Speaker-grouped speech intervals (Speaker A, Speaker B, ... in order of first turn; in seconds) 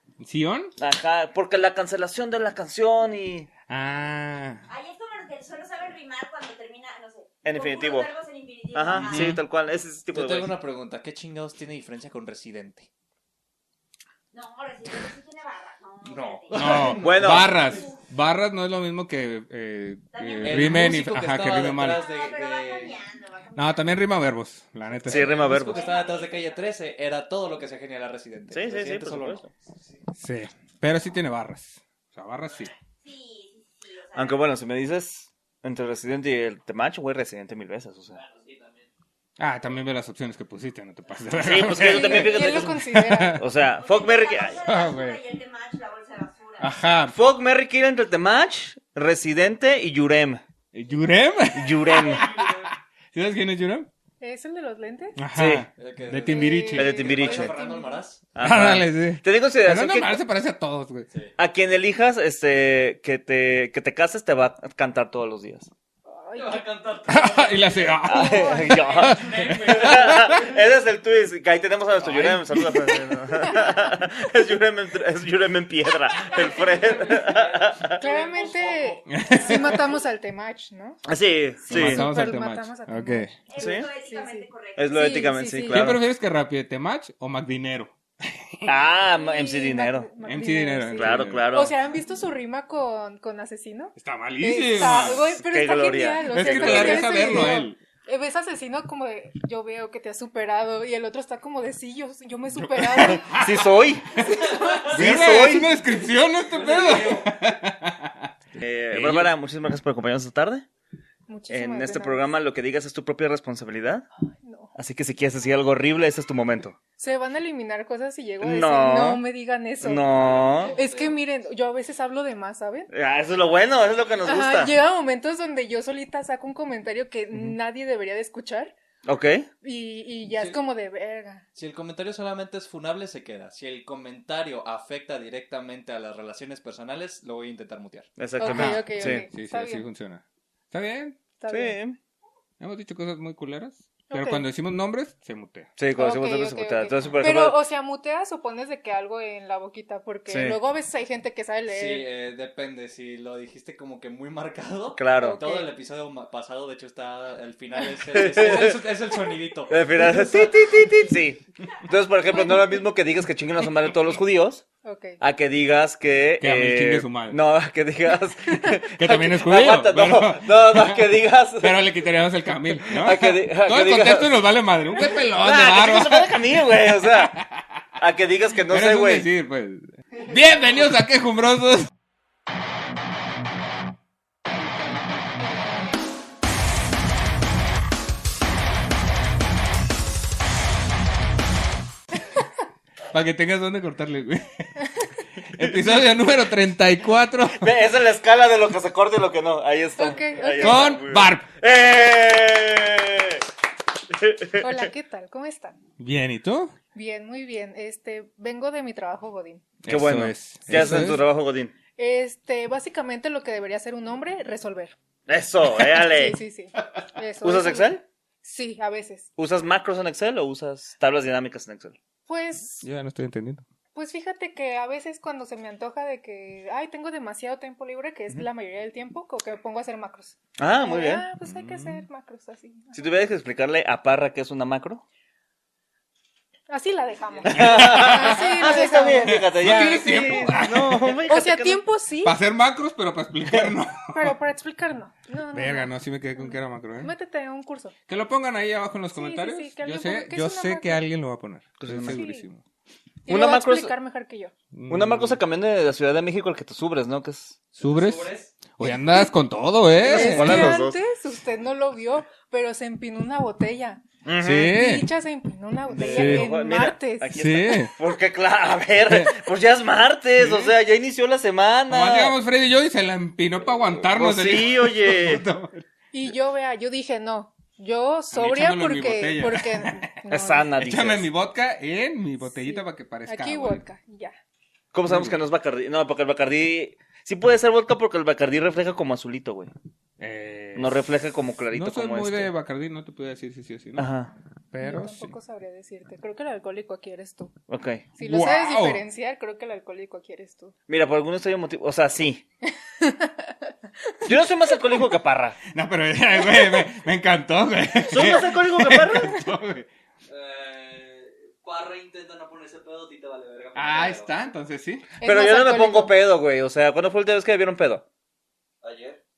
Speaker A: 0.2-0.7, 3.7-4.6, 8.9-9.4, 16.5-22.0, 23.6-25.4, 30.2-32.7, 39.4-43.4, 44.6-45.2, 46.6-47.1, 50.7-53.9, 55.1-56.9, 58.4-61.1, 67.1-70.4, 72.0-73.5, 79.1-79.8, 81.7-83.3, 85.7-88.7, 90.2-91.4, 94.0-95.2, 96.3-97.8, 102.5-103.6, 104.8-108.3, 108.9-109.3, 138.4-141.2, 142.6-145.7, 166.4-167.4, 168.9-176.4, 177.2-177.6, 178.7-181.9, 193.1-194.7, 195.4-197.7, 200.6-201.4, 206.0-206.7, 209.8-211.2, 222.8-223.6, 231.4-232.0, 237.5-241.2, 242.2-244.3, 245.5-247.1, 248.1-252.6, 254.7-255.4, 257.8-260.8, 264.4-265.1, 266.0-266.5, 267.3-267.9, 269.1-269.4, 270.4-270.7, 271.9-275.8, 278.3-280.1, 280.8-283.8, 285.1-285.4, 290.2-291.0, 291.7-294.1, 294.7-295.4, 298.2-299.0, 305.7-309.9, 313.7-315.1
Speaker B: 0.8-3.5, 7.4-8.1, 8.7-10.5, 17.0-17.5, 25.1-25.9, 28.5-29.4, 34.1-38.2, 41.4-42.8, 43.4-44.6, 47.1-50.4, 51.5-52.2, 55.3-55.6, 56.8-57.5, 58.3-60.2, 61.4-65.7, 68.0-78.0, 81.0-82.1, 83.5-83.9, 84.8-86.0, 88.7-90.1, 91.0-91.7, 94.8-97.6, 103.0-104.0, 104.9-105.7, 108.6-110.7, 111.5-114.0, 114.7-116.8, 118.4-119.2, 119.8-120.7, 122.9-124.7, 129.0-129.5, 138.2-139.2, 141.5-142.0, 145.8-147.6, 150.3-150.6, 155.0-155.4, 158.1-158.8, 159.7-164.6, 165.2-171.8, 172.9-174.4, 175.3-177.4, 178.0-179.3, 197.5-203.4, 204.1-204.8, 209.9-211.7, 215.3-216.4, 217.4-218.0, 219.4-222.0, 230.6-231.2, 232.9-235.0, 237.4-241.8, 251.8-252.2, 253.3-253.9, 254.9-257.6, 260.0-261.0, 264.2-264.8, 265.9-272.3, 274.1-275.4, 280.3-281.3, 284.9-289.7, 290.7-292.5, 294.0-294.3, 297.7-298.1, 300.9-302.4, 304.2-305.6, 308.0-309.3, 315.2-318.0
Speaker C: 4.7-9.4, 14.3-18.0, 20.1-24.0, 25.1-26.7, 33.0-34.4, 43.7-46.8, 76.4-76.8, 83.5-85.1
Speaker D: 10.1-12.9, 16.0-17.8, 20.4-23.0, 25.0-30.0, 38.2-38.9, 52.2-52.5, 55.8-58.2, 66.3-68.0, 68.8-70.5, 76.4-80.0, 106.5-107.3, 120.1-121.2, 130.3-130.6, 131.5-138.1, 151.7-160.4, 257.8-258.5, 310.3-314.3, 318.8-319.2
Speaker E: 41.8-43.4, 54.2-55.2, 56.2-58.0, 66.1-66.6, 68.1-68.9, 78.0-81.0, 81.7-85.9, 89.0-103.4, 104.2-105.0, 111.3-112.3, 114.4-114.7, 117.0-120.0, 120.7-122.9, 124.2-128.7, 129.6-131.4, 138.4-139.8, 141.4-141.8, 144.1-144.4, 145.9-152.1, 155.2-155.7, 164.8-165.2, 200.0-200.9, 204.6-205.8, 206.9-209.6, 212.0-214.9, 215.8-219.3, 222.2-222.8, 223.9-233.1, 236.7-239.5, 241.3-242.3, 244.1-247.9, 249.1-251.0, 252.0-252.4, 253.3-254.5, 258.8-259.3, 260.0-264.0, 264.7-267.4, 276.1-280.7, 282.5-284.4, 294.8-297.5, 298.2-300.7, 303.0-303.7, 306.4-306.9, 315.2-316.1